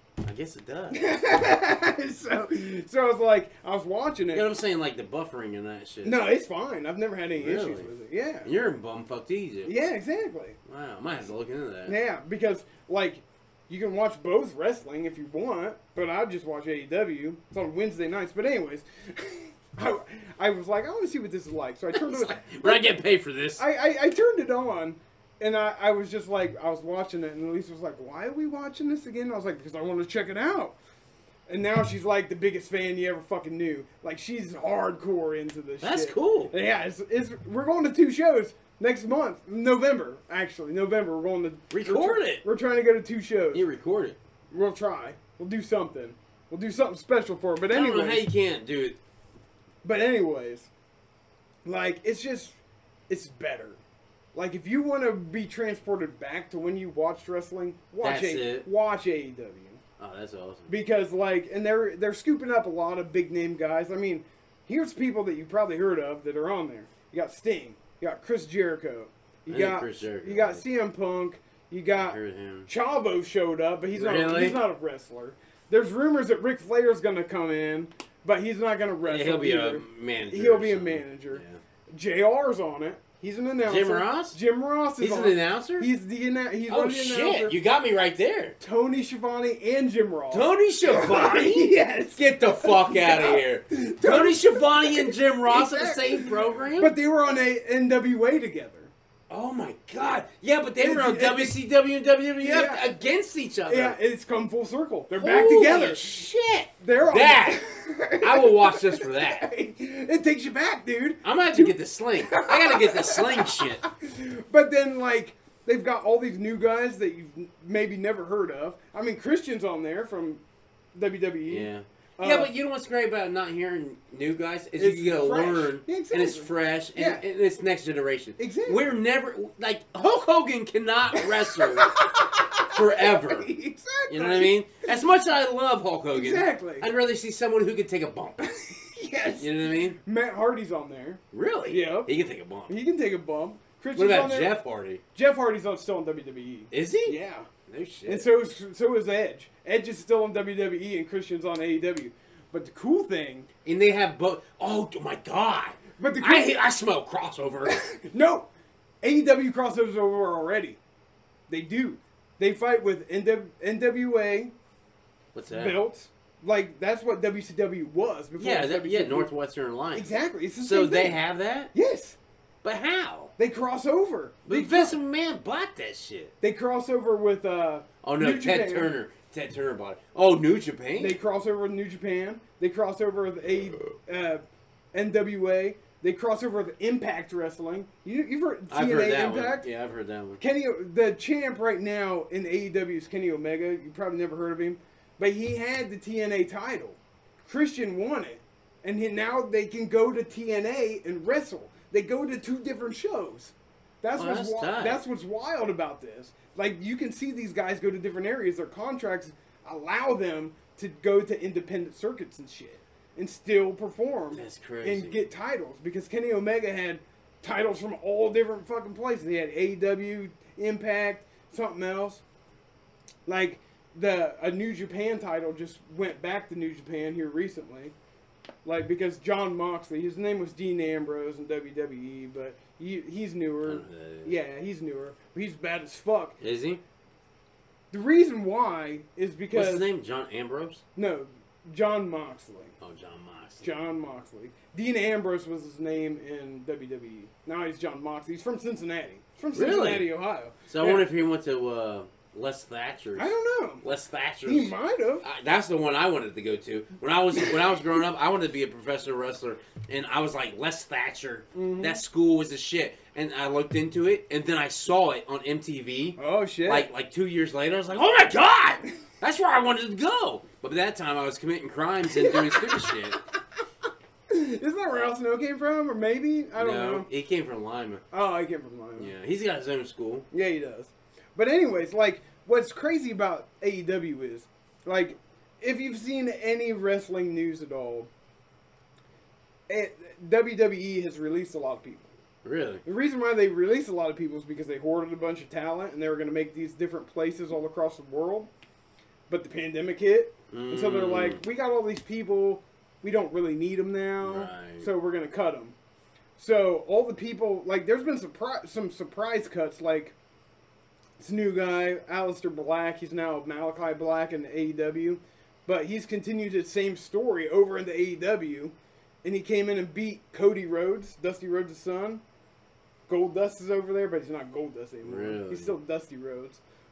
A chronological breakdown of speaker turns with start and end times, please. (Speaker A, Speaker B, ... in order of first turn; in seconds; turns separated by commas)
Speaker A: 0.2-1.0, Speaker B: 0.9-4.5, Speaker A: 4.3-6.2, Speaker B: 6.0-8.5, Speaker A: 7.3-7.9, Speaker A: 8.4-9.7, Speaker B: 9.7-10.6, Speaker A: 10.7-11.9, Speaker B: 11.8-23.0, Speaker A: 21.9-23.6, Speaker B: 23.6-30.8, Speaker B: 31.5-43.6, Speaker A: 35.8-36.5, Speaker A: 41.7-42.4, Speaker A: 43.5-44.2, Speaker B: 44.5-48.3, Speaker A: 47.7-49.0, Speaker B: 49.8-50.7, Speaker B: 51.6-52.6, Speaker B: 53.1-53.8, Speaker B: 54.3-59.8, Speaker A: 58.0-58.7, Speaker A: 60.0-60.7, Speaker B: 60.7-87.5, Speaker A: 69.5-70.6, Speaker A: 72.0-72.7, Speaker A: 73.9-74.6, Speaker A: 79.0-81.6, Speaker A: 83.6-84.4, Speaker A: 85.0-85.9, Speaker A: 86.7-88.6, Speaker B: 88.6-98.9, Speaker A: 90.3-96.9, Speaker A: 99.3-104.0, Speaker B: 100.8-101.5, Speaker B: 102.4-102.8, Speaker B: 103.7-106.1, Speaker A: 105.1-107.6, Speaker B: 106.8-120.4, Speaker A: 108.2-109.5, Speaker A: 111.2-113.8, Speaker B: 120.9-122.5, Speaker A: 121.5-132.0, Speaker B: 124.8-127.2, Speaker B: 128.4-128.8, Speaker B: 131.1-134.9, Speaker A: 132.6-133.5, Speaker A: 134.1-138.4, Speaker B: 136.1-136.9, Speaker B: 138.4-142.1, Speaker A: 139.4-140.0, Speaker A: 141.3-142.7, Speaker B: 142.7-144.6, Speaker A: 143.9-145.0, Speaker B: 145.1-147.5, Speaker A: 146.7-148.3, Speaker B: 148.1-153.5, Speaker A: 153.6-157.8, Speaker B: 155.9-156.5, Speaker B: 157.7-158.5, Speaker B: 159.0-160.8, Speaker B: 161.5-164.5, Speaker A: 165.3-165.8, Speaker B: 165.5-169.3, Speaker A: 168.4-171.7, Speaker B: 169.9-171.2, Speaker B: 171.7-172.2, Speaker A: 172.6-173.3, Speaker B: 173.4-175.0, Speaker A: 174.4-176.3, Speaker B: 176.4-178.9, Speaker A: 178.0-181.2, Speaker B: 181.0-184.4, Speaker B: 184.9-189.7, Speaker A: 188.7-190.4, Speaker B: 190.4-222.2, Speaker A: 204.2-205.0, Speaker A: 214.3-215.2, Speaker B: 223.2-227.9, Speaker B: 228.6-236.4, Speaker A: 233.6-234.3, Speaker A: 236.4-236.8, Speaker B: 237.9-239.9, Speaker A: 239.5-240.8, Speaker B: 240.9-242.7, Speaker A: 242.8-243.7, Speaker B: 243.6-251.1, Speaker A: 249.5-250.1, Speaker A: 250.7-273.2, Speaker B: 253.1-253.8, Speaker B: 254.4-255.2, Speaker B: 261.5-262.0, Speaker B: 266.2-266.9, Speaker B: 272.1-273.2, Speaker B: 274.3-277.1, Speaker A: 276.6-278.0, Speaker B: 278.1-279.1, Speaker A: 279.0-280.3, Speaker B: 280.3-288.1, Speaker B: 289.7-292.1, Speaker A: 292.4-292.8, Speaker B: 292.8-298.5, Speaker B: 299.3-305.7, Speaker A: 300.5-301.4, Speaker A: 304.2-304.9, Speaker B: 306.4-310.1, Speaker B: 311.2-322.2, Speaker B: 323.1-326.6, Speaker A: 325.0-325.8